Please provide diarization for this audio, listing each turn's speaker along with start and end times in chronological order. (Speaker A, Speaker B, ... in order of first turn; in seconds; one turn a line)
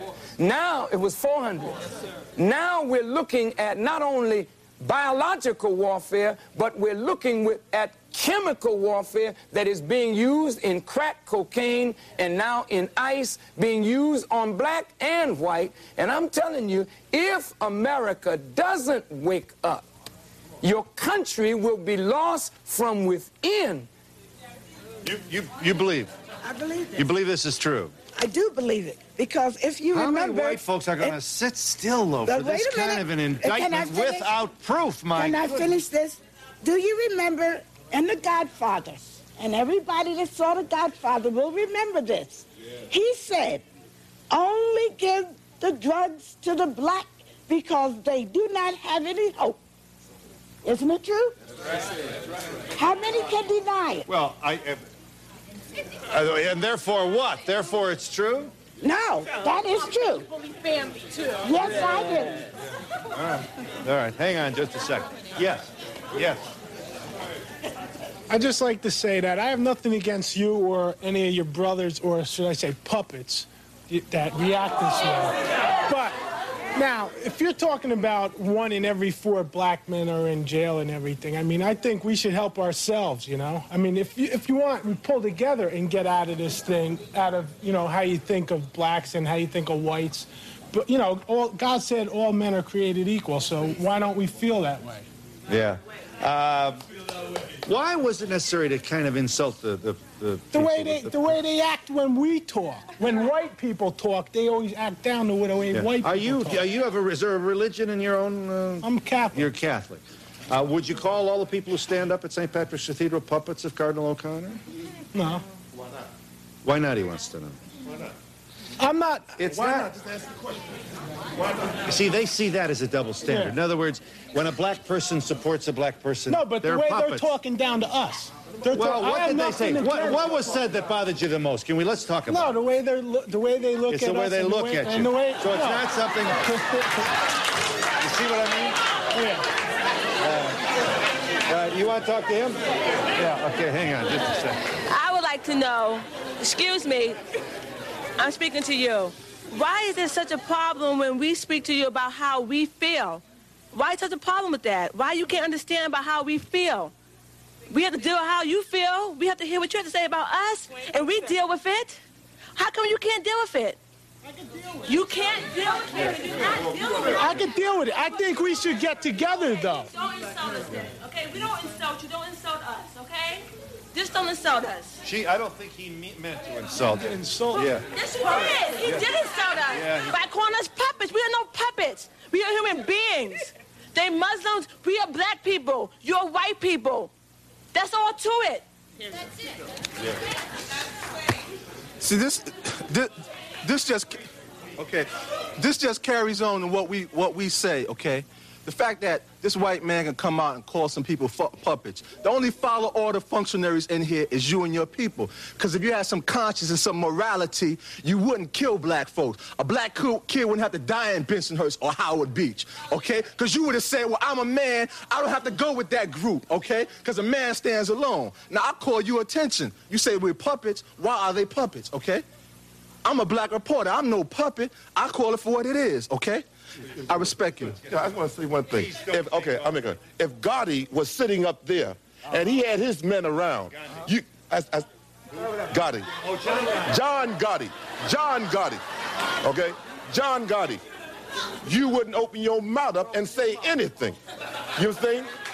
Speaker A: 0.4-19.9
Speaker A: 20.6-23.9
Speaker B: 25.0-26.1
Speaker C: 26.4-27.0
Speaker B: 26.9-27.9
Speaker C: 28.1-31.2
Speaker B: 29.9-35.7
Speaker C: 32.2-34.3
Speaker C: 35.1-43.6
Speaker C: 44.3-49.6
Speaker C: 50.6-51.4
Speaker C: 52.8-54.1
Speaker B: 54.1-54.9
Speaker B: 56.1-58.5
Speaker C: 58.8-60.3
Speaker C: 61.4-62.4
Speaker B: 63.1-66.5
Speaker D: 68.3-76.2
Speaker D: 76.7-95.1
Speaker B: 95.5-96.8
Speaker B: 97.7-101.4
Speaker D: 100.5-106.7
Speaker B: 105.7-114.6
Speaker D: 108.8-109.5
Speaker D: 115.1-115.4
Speaker B: 116.6-117.6
Speaker D: 118.8-119.9
Speaker B: 119.4-119.9
Speaker B: 121.9-127.3
Speaker D: 123.2-123.6
Speaker D: 126.3-130.5
Speaker B: 128.7-132.6
Speaker D: 132.3-136.9
Speaker B: 133.9-136.4
Speaker B: 138.0-138.8
Speaker D: 139.1-139.4
Speaker B: 140.2-140.6
Speaker B: 141.5-142.6
Speaker B: 143.2-144.6
Speaker E: 144.9-147.2
Speaker E: 148.2-153.2
Speaker E: 153.7-156.9
Speaker E: 157.7-161.9
Speaker E: 162.6-163.8
Speaker E: 164.9-166.8
Speaker D: 167.2-169.9
Speaker E: 169.9-173.4
Speaker E: 173.9-174.9
Speaker B: 175.0-177.8
Speaker D: 176.9-177.7
Speaker E: 178.1-187.1
Speaker B: 179.7-180.1
Speaker E: 187.7-188.6
Speaker F: 192.0-193.1
Speaker F: 193.6-194.2
Speaker F: 194.8-222.2
Speaker F: 223.0-226.4
Speaker F: 227.1-227.8
Speaker G: 227.9-234.7
Speaker B: 228.8-229.7
Speaker G: 235.7-236.0
Speaker B: 236.3-236.8
Speaker G: 236.9-238.8
Speaker G: 239.4-240.8
Speaker G: 241.7-244.2
Speaker G: 244.8-245.3